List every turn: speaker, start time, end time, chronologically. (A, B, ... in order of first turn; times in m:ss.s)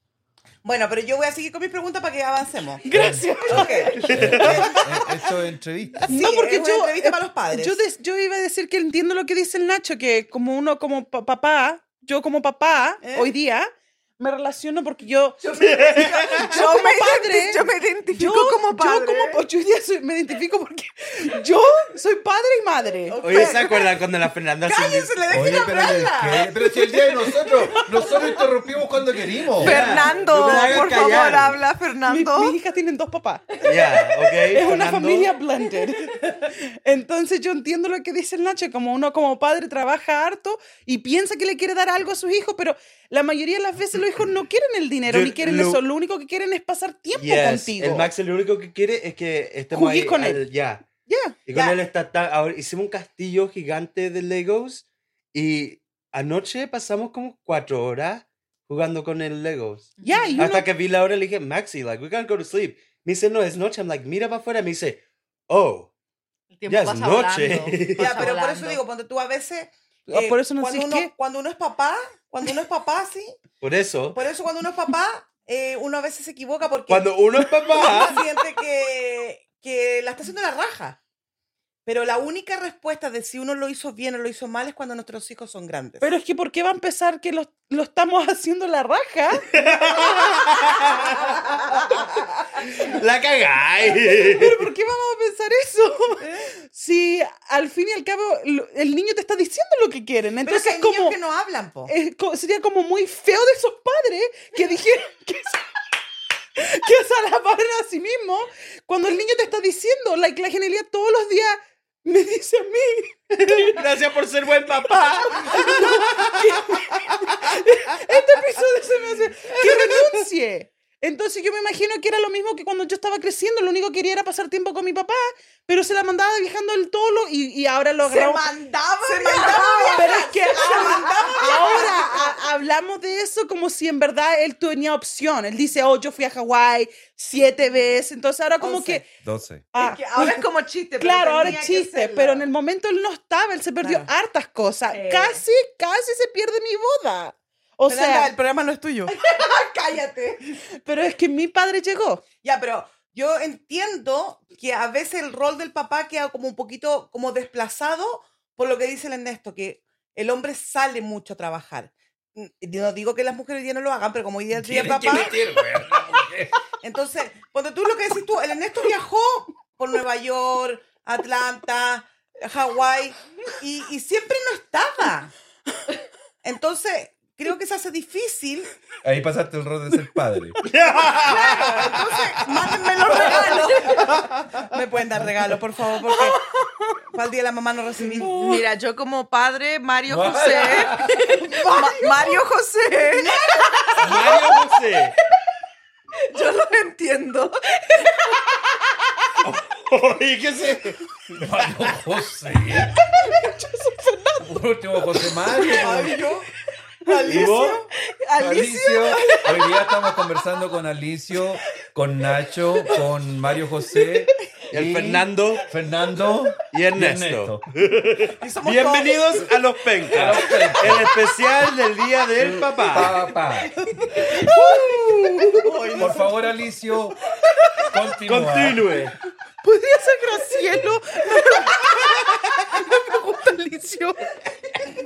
0:00.6-0:02.8 A
0:02.8-0:04.3 B
0:02.9-0:03.6 C
0:03.2-0:04.0 D
0:03.5-0:05.0 A
0:04.0-0:04.6 E
0:04.1-0:06.2 C
0:06.0-0:07.8 A
0:06.1-0:23.2 B
0:13.0-0:13.3 A
0:15.4-0:16.6 A
0:15.6-0:16.5 E
0:16.5-0:19.4 D
0:23.1-0:24.0 A
0:23.2-0:25.4 E
0:24.6-0:28.1 A
0:25.3-0:29.9 C
0:27.8-0:28.2 D
0:29.6-0:32.5 D
0:29.6-0:31.6 E
0:32.0-0:33.4 B
0:33.6-0:34.4 D
0:33.6-0:35.3 E
0:34.5-0:48.1 B
0:45.1-0:45.8 E
0:47.1-0:50.8 E
0:49.7-0:50.4 B
0:51.0-0:51.4 B
0:51.4-1:05.9 E
1:00.0-1:00.4 D
1:00.0-1:00.7 B
1:06.5-1:08.8 D
1:06.7-1:08.3 E
1:08.0-1:13.4 A
1:10.1-1:11.1 B
1:13.6-1:14.2 E
1:14.1-1:21.0 A
1:16.9-1:18.2 E
1:21.8-1:26.1 A
1:26.0-1:29.5 B
1:29.5-1:31.4 E
1:32.6-1:34.6 E
1:34.2-1:41.2 B
1:36.2-1:36.5 A
1:40.4-1:41.9 A
1:41.9-1:45.7 B
1:46.6-1:53.8 B
1:53.4-1:56.3 E
1:55.5-2:08.5 B
1:59.6-1:59.9 E
2:08.0-2:12.3 D
2:09.0-2:12.0 A
2:09.9-2:19.0 B
2:18.6-2:19.0 A
2:19.2-2:19.7 C
2:19.7-2:20.4 B
2:19.8-2:22.4 D
2:21.0-2:28.3 B
2:21.3-2:21.6 A
2:23.8-2:24.1 A
2:24.9-2:25.4 D
2:27.9-2:29.1 A
2:29.1-2:30.4 D
2:30.8-2:32.2 B
2:32.4-2:45.4 A
2:44.5-2:46.5 C
2:46.8-2:55.3 A
2:56.4-2:58.7 A
2:59.0-3:00.6 C
3:00.6-3:02.2 E
3:01.3-3:02.5 D
3:02.4-3:06.4 A
3:03.0-3:04.2 D
3:07.1-3:08.4 A
3:08.2-3:14.2 D
3:08.2-3:08.6 B
3:10.1-3:11.2 C
3:11.5-3:11.9 B
3:11.6-3:12.4 A
3:13.1-3:14.3 A
3:14.0-3:15.1 E
3:16.3-3:18.4 D
3:19.4-3:21.3 E
3:21.3-3:22.9 C
3:23.2-3:24.6 B
3:24.4-3:26.2 C
3:25.7-3:26.5 A
3:27.0-3:27.9 A
3:27.3-3:27.8 E
3:28.4-3:37.6 C
3:28.4-3:29.4 B
3:28.4-3:29.7 D
3:34.7-3:35.6 E
3:36.7-3:43.2 E
3:38.4-3:39.5 A
3:40.1-3:41.1 C
3:42.9-3:43.7 C
3:44.1-3:46.3 A
3:44.3-3:45.1 B
3:44.8-3:45.5 E
3:46.0-3:47.2 C
3:47.9-3:48.8 C
3:48.2-3:49.1 E
3:49.6-3:54.2 B